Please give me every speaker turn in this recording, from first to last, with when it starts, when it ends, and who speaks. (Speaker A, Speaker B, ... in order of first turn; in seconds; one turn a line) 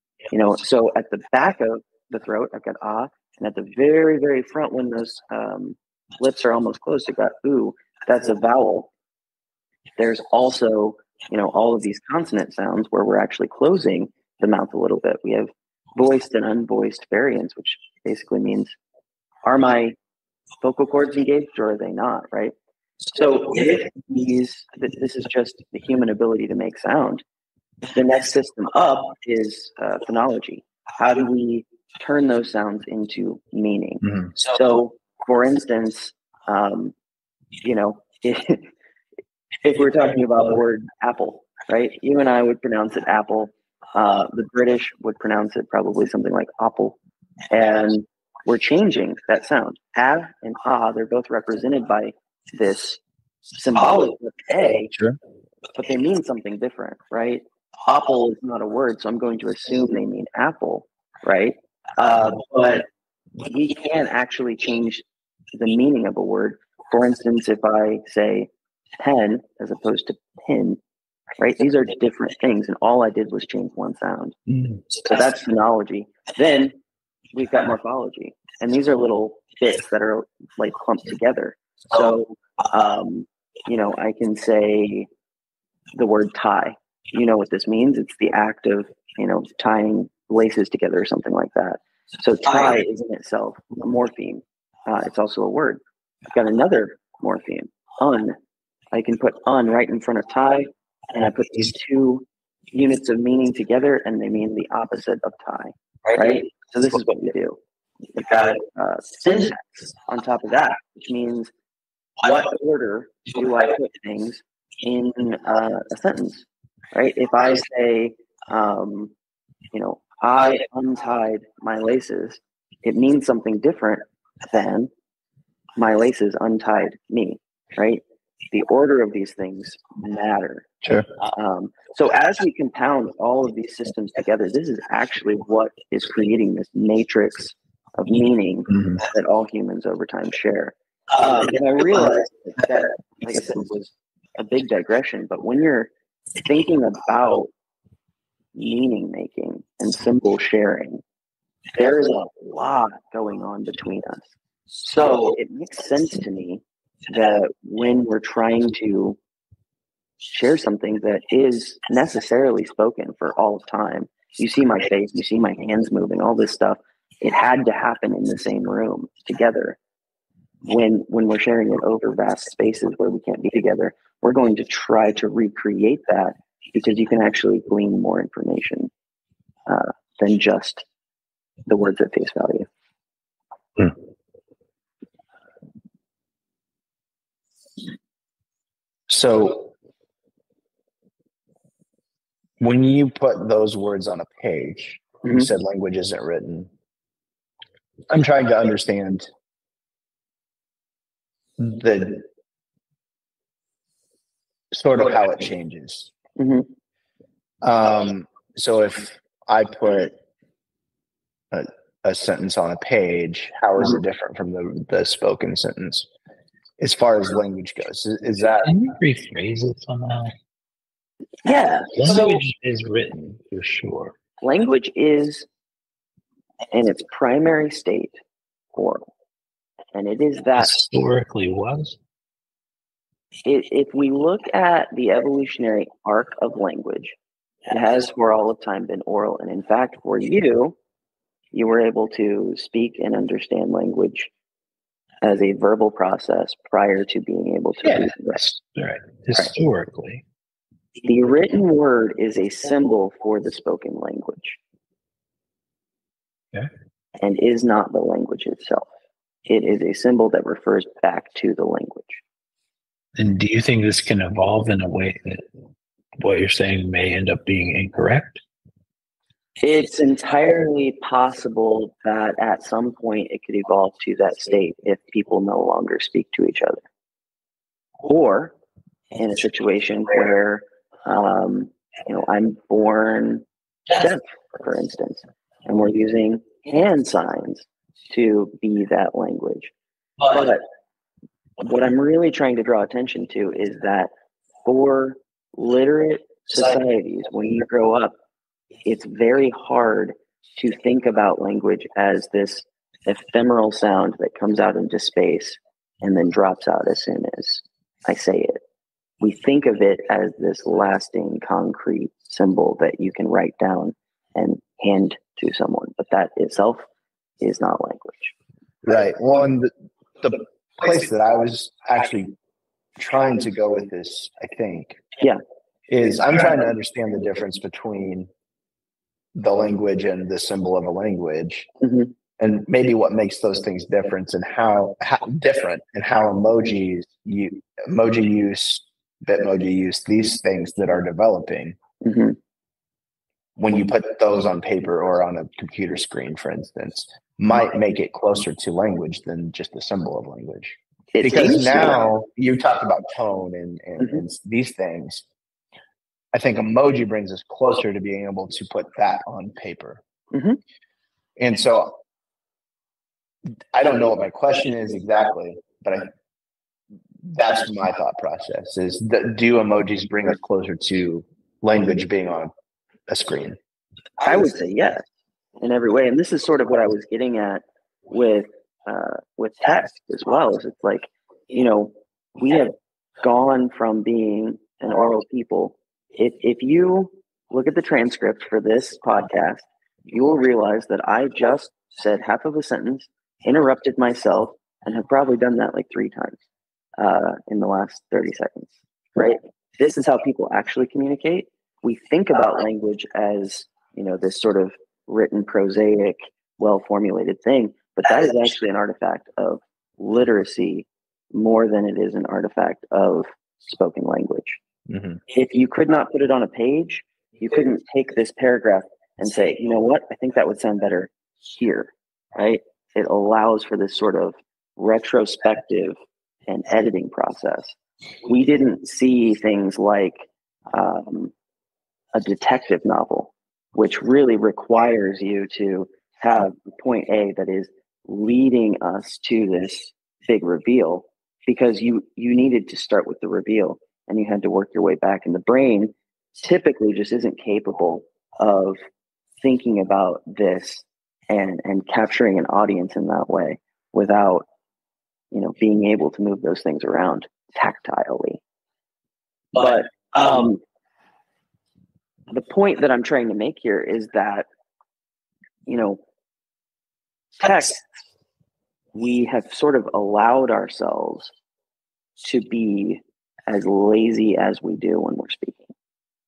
Speaker A: 0.3-8.9
Speaker A: 10.0-18.8
Speaker A: 19.4-20.0
Speaker A: 20.6-27.2
Speaker A: 27.9-36.9
Speaker B: 34.0-34.3
Speaker A: 37.6-38.7
Speaker A: 39.6-47.0
Speaker A: 47.5-53.0
Speaker A: 53.5-54.9
Speaker A: 55.7-62.9
Speaker A: 63.4-70.8
Speaker A: 71.4-74.4
Speaker B: 74.5-74.8
Speaker A: 74.9-76.8
Speaker A: 77.3-85.1
Speaker A: 85.9-98.4
Speaker A: 98.9-107.6
Speaker A: 108.1-111.5
Speaker A: 112.2-119.1
Speaker A: 119.7-124.9
Speaker A: 125.8-147.5
Speaker B: 130.8-131.1
Speaker A: 148.6-151.0
Speaker A: 151.7-154.3
Speaker A: 154.8-159.2
Speaker A: 160.3-169.8
Speaker A: 170.7-178.9
Speaker A: 179.7-180.8
Speaker A: 181.7-182.7
Speaker B: 189.1-189.7
Speaker B: 192.6-196.7
Speaker B: 198.1-199.3
Speaker B: 201.6-202.3
Speaker B: 204.7-206.1
Speaker A: 206.4-206.7
Speaker B: 207.6-210.1
Speaker B: 211.5-216.1
Speaker B: 216.8-218.7
Speaker C: 218.6-220.3
Speaker A: 221.4-222.4
Speaker C: 222.0-224.2
Speaker A: 224.4-225.5
Speaker A: 226.7-228.2
Speaker A: 228.7-229.1
Speaker A: 229.9-230.8
Speaker C: 230.6-232.0
Speaker A: 233.4-237.2
Speaker A: 237.7-240.8
Speaker A: 241.5-244.3
Speaker A: 245.2-248.6
Speaker C: 247.8-250.2
Speaker A: 251.0-254.6
Speaker A: 257.2-258.9
Speaker A: 259.5-262.2
Speaker C: 263.2-265.5
Speaker C: 266.2-268.4
Speaker A: 269.6-276.8
Speaker A: 278.0-278.5
Speaker A: 279.1-289.7
Speaker A: 290.2-290.6
Speaker A: 291.6-294.1
Speaker A: 294.6-298.1
Speaker A: 298.8-308.6
Speaker A: 309.2-316.9
Speaker A: 317.4-318.3
Speaker B: 318.9-322.3
Speaker B: 323.0-325.0
Speaker B: 325.9-328.3
Speaker B: 329.4-331.7
Speaker A: 331.8-332.1
Speaker B: 332.4-341.8
Speaker A: 342.0-342.4
Speaker B: 343.6-355.2
Speaker A: 351.1-352.0
Speaker A: 354.0-354.2
Speaker B: 356.3-360.0
Speaker A: 360.3-360.6
Speaker B: 361.4-362.0
Speaker B: 363.7-366.1
Speaker B: 367.2-372.5
Speaker B: 373.1-373.6
Speaker A: 374.2-375.1
Speaker A: 375.6-396.4
Speaker A: 397.0-414.6
Speaker B: 414.9-415.2
Speaker A: 415.3-426.0
Speaker A: 426.5-431.3
Speaker A: 432.1-448.8
Speaker A: 449.4-454.5
Speaker A: 455.3-458.4
Speaker A: 459.5-460.6
Speaker A: 462.3-464.5
Speaker A: 465.7-466.0
Speaker A: 467.4-467.9
Speaker A: 468.9-471.3
Speaker A: 472.2-475.7